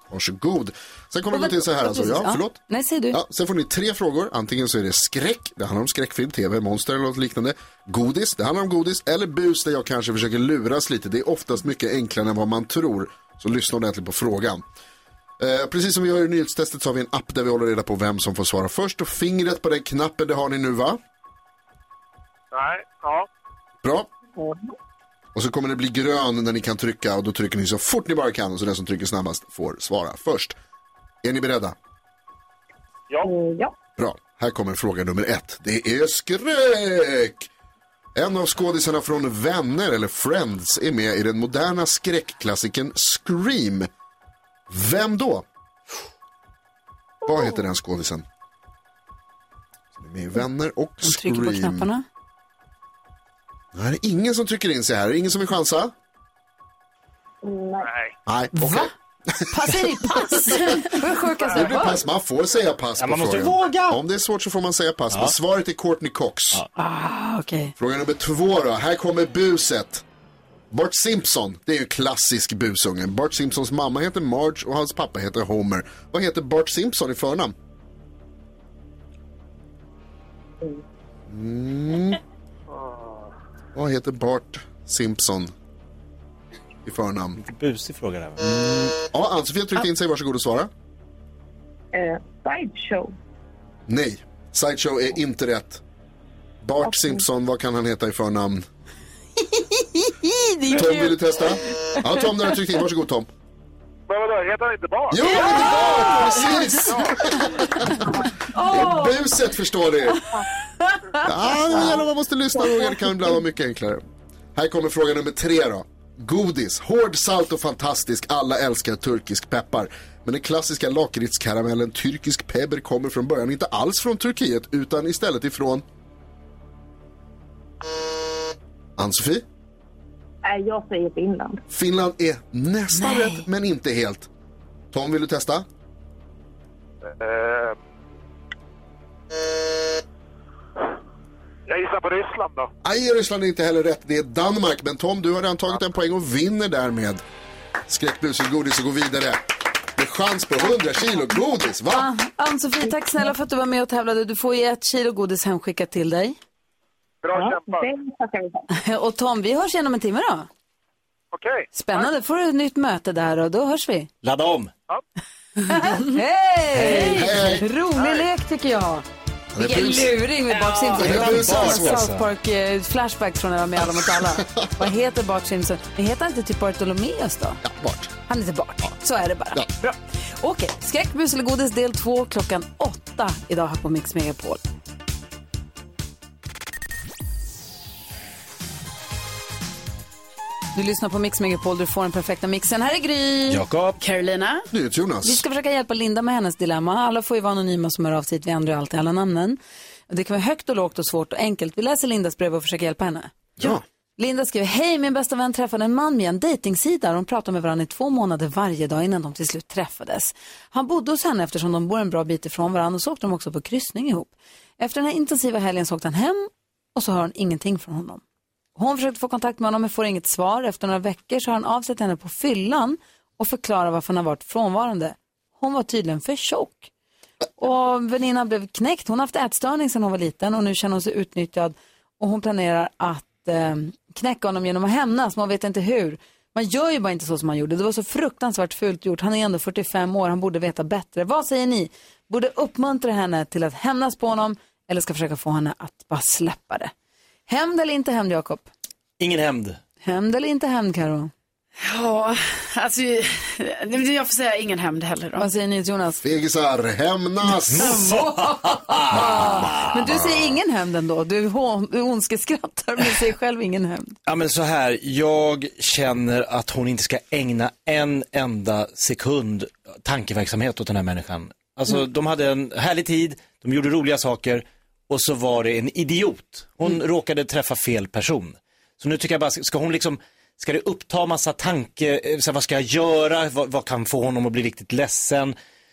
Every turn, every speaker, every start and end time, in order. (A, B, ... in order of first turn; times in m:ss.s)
0:00.1-0:02.6 A
0:01.3-0:03.2 B
0:03.1-0:14.6 A
0:15.4-0:21.0 A
0:22.5-0:23.3 C
0:23.8-0:24.1 A
0:24.4-0:24.7 D
0:25.4-0:30.6 A
0:31.2-0:31.8 A
0:33.2-0:33.7 D
0:34.0-0:37.5 A
0:38.2-0:43.9 A
0:44.7-0:45.4 A
0:47.2-0:48.2 A
0:50.0-0:51.9 A
0:51.0-0:52.0 B
0:53.7-0:55.9 A
0:57.4-0:57.9 D
0:57.8-0:58.1 C
0:58.3-1:00.6 A
0:58.5-0:58.9 B
0:59.5-1:02.0 B
1:01.5-1:06.6 A
1:03.0-1:04.0 E
1:06.8-1:07.7 B
1:07.8-1:10.0 A
1:10.7-1:17.6 A
1:21.3-1:22.2 A
1:22.7-1:23.3 C
1:23.8-1:25.5 A
1:26.9-1:27.4 A
1:27.4-1:28.4 E
1:28.4-1:30.7 A
1:31.9-1:33.1 D
1:33.9-1:35.8 A
1:36.6-1:38.6 A
1:36.8-1:37.2 D
1:39.4-1:42.0 B
1:40.7-1:43.3 A
1:44.1-1:46.1 C
1:45.1-1:48.1 A
1:45.3-1:46.6 B
1:47.8-1:48.0 B
1:48.5-1:49.3 B
1:48.6-1:50.2 A
1:50.8-1:51.2 B
1:51.2-1:54.0 A
1:51.7-1:52.0 D
1:54.6-2:05.8 A
2:09.0-2:09.4 A
2:10.4-2:11.6 D
2:11.7-2:14.3 A
2:13.0-2:13.5 B
2:14.9-2:15.7 A
2:17.0-2:17.8 C
2:21.7-2:22.7 C
2:22.8-2:27.2 A
2:27.9-2:29.4 A
2:30.0-2:32.1 A
2:31.9-2:36.4 B
2:37.2-2:37.9 C
2:37.3-2:38.7 D
2:38.7-2:40.5 B
2:41.3-2:42.1 C
2:41.7-2:44.1 B
2:44.2-2:44.7 E
2:45.6-2:49.0 B
2:46.8-2:47.3 E
2:46.9-2:47.2 F
2:46.9-2:47.6 A
2:48.0-2:48.2 C
2:49.5-2:50.2 A
2:49.6-2:57.6 B
2:50.9-2:52.3 E
2:51.0-2:52.0 A
2:54.2-2:54.7 A
2:57.6-2:58.1 A
2:58.3-3:04.6 B
3:10.8-3:13.6 B
3:13.5-3:14.0 E
3:14.0-3:14.6 F
3:14.7-3:15.4 A
3:15.2-3:23.3 B
3:24.2-3:38.2 B
3:38.8-3:46.9 B
3:47.6-4:06.9 B
4:07.5-4:08.7 B
4:09.2-4:09.8 E
4:10.0-4:11.3 B
4:11.8-4:15.5 F
4:15.4-4:16.2 B
4:16.2-4:18.0 A
4:17.7-4:20.0 E
4:17.7-4:24.2 B
4:19.1-4:20.4 A
4:24.3-4:45.6 E